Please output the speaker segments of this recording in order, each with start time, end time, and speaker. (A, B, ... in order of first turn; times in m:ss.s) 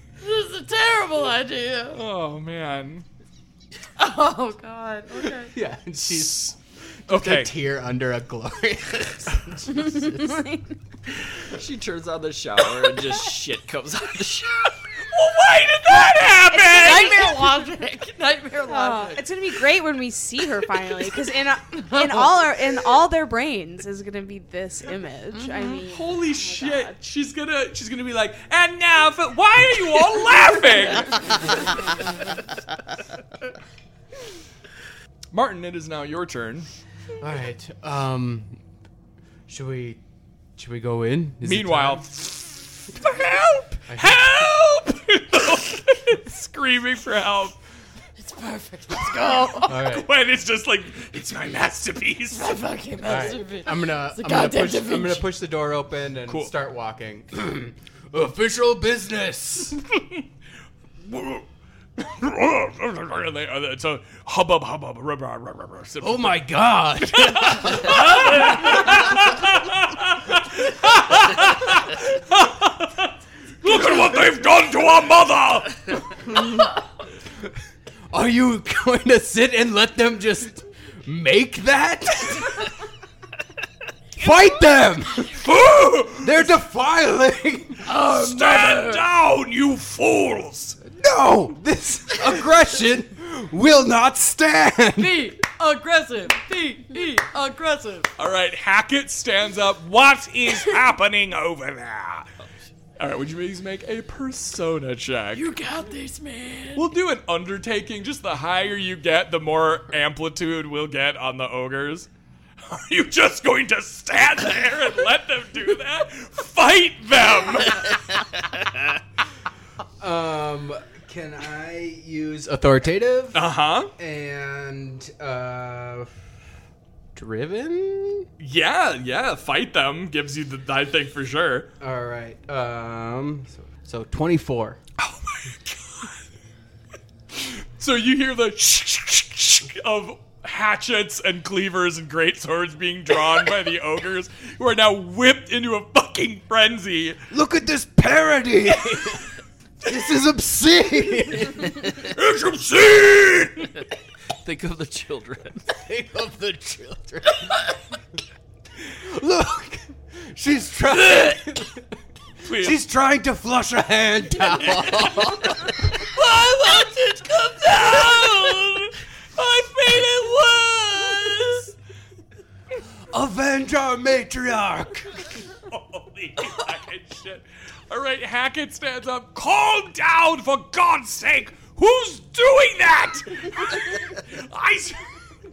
0:00.2-0:02.0 A
0:01.9-0:03.1 B
0:04.0-0:05.5 A
0:05.5-0:06.6 C
0:06.0-0:06.6 B
0:07.1-0:10.4 C
0:07.1-0:07.5 B
0:09.8-0:10.6 D
0:11.5-0:14.5 E
0:15.1-0:17.4 B
0:16.0-0:19.5 A
0:16.5-0:17.6 D
0:18.7-0:27.0 D
0:21.7-0:22.6 A
0:25.3-0:25.8 A
0:25.7-0:31.4 B
0:35.3-0:36.7 B
0:37.2-0:38.6 C
0:39.5-0:40.0 C
0:40.6-0:42.0 C
0:41.4-0:47.6 B
0:43.9-0:44.3 C
0:48.2-0:49.8 A
0:49.2-0:52.6 B
0:49.6-0:50.1 C
0:52.3-0:55.4 A
0:53.0-0:59.8 C
1:01.0-1:01.4 B
1:02.0-1:16.2 B
1:06.0-1:08.9 C
1:18.1-1:22.7 C
1:24.2-1:25.4 C
1:25.4-1:26.5 B
1:26.2-1:27.8 C
1:27.8-1:29.0 A
1:28.1-1:30.8 B
1:30.9-1:35.4 C
1:35.0-1:38.1 A
1:38.2-1:42.3 B
1:43.0-1:45.5 B
1:45.3-1:46.9 A
1:46.7-1:52.1 B
1:52.7-1:58.0 B
2:00.0-2:06.1 C
2:03.3-2:03.9 B
2:07.1-2:08.3 C
2:08.4-2:11.7 B
2:11.8-2:14.8 C
2:15.0-2:16.2 B
2:17.3-2:27.2 B
2:27.3-2:31.8 C
2:31.9-2:33.7 B
2:34.4-2:35.6 E
2:35.7-2:37.6 C
2:38.9-2:41.9 C
2:42.4-2:42.8 B
2:42.5-2:45.8 C
2:46.0-2:51.7 B
2:53.1-2:55.1 C
2:55.7-3:05.1 B